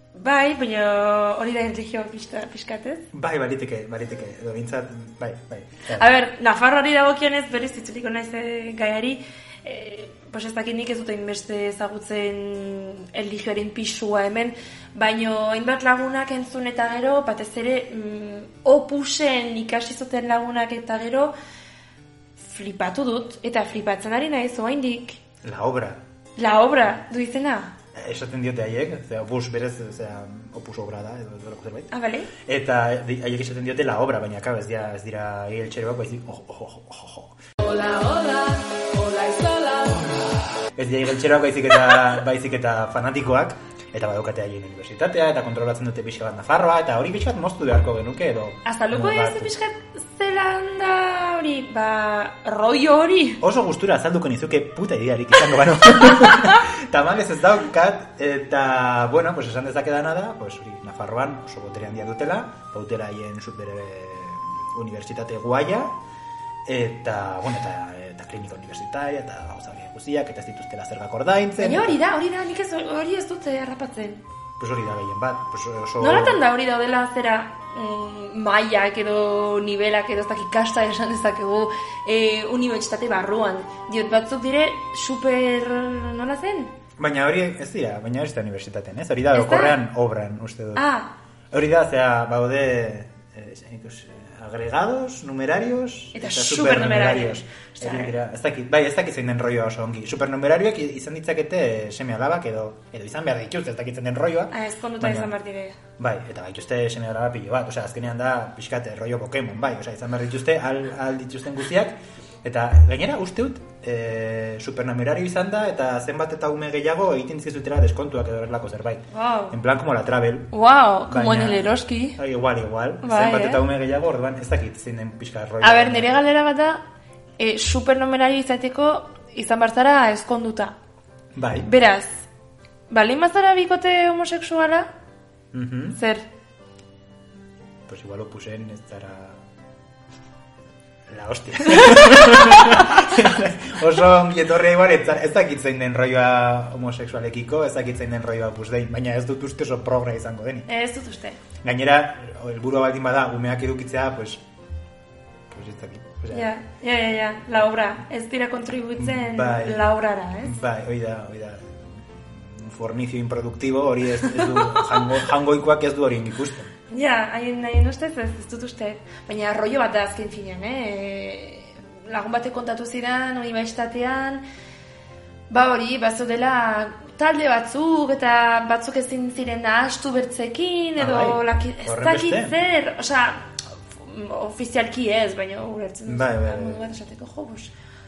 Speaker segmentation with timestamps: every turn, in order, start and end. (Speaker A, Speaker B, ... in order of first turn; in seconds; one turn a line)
Speaker A: 0.1-3.1
Speaker B: 3.1-6.1
Speaker A: 5.9-21.3
Speaker A: 22.4-25.2
Speaker B: 25.4-26.0
Speaker A: 26.4-27.7
Speaker B: 27.9-37.4
Speaker A: 31.9-32.3
Speaker A: 37.7-40.1
Speaker B: 40.8-49.5
Speaker A: 48.7-53.4
Speaker B: 53.4-66.0
Speaker A: 56.2-56.5
Speaker B: 66.7-72.0
Speaker A: 71.6-74.2
Speaker B: 74.6-76.4
Speaker A: 76.0-86.7
Speaker B: 87.0-90.9
Speaker A: 89.3-89.8
Speaker A: 90.8-91.1
Speaker B: 91.5-105.3
Speaker A: 96.2-98.2
Speaker A: 104.5-105.8
Speaker B: 106.0-120.5
Speaker A: 119.1-119.5
Speaker A: 120.5-122.2
Speaker B: 121.1-126.2
Speaker A: 123.0-123.6
Speaker A: 125.6-126.8
Speaker A: 127.4-130.8
Speaker B: 131.3-131.7
Speaker A: 131.6-132.2
Speaker A: 132.9-134.9
Speaker B: 135.5-136.0
Speaker A: 136.0-136.2
Speaker B: 137.9-139.4
Speaker B: 141.1-150.7
Speaker A: 141.8-143.0
Speaker A: 150.7-151.4
Speaker B: 151.6-154.4
Speaker B: 155.5-156.5
Speaker A: 156.3-160.6
Speaker B: 159.0-166.7
Speaker A: 164.3-165.1
Speaker A: 166.9-174.4
Speaker A: 175.5-187.7
Speaker B: 181.0-182.6
Speaker B: 186.1-186.8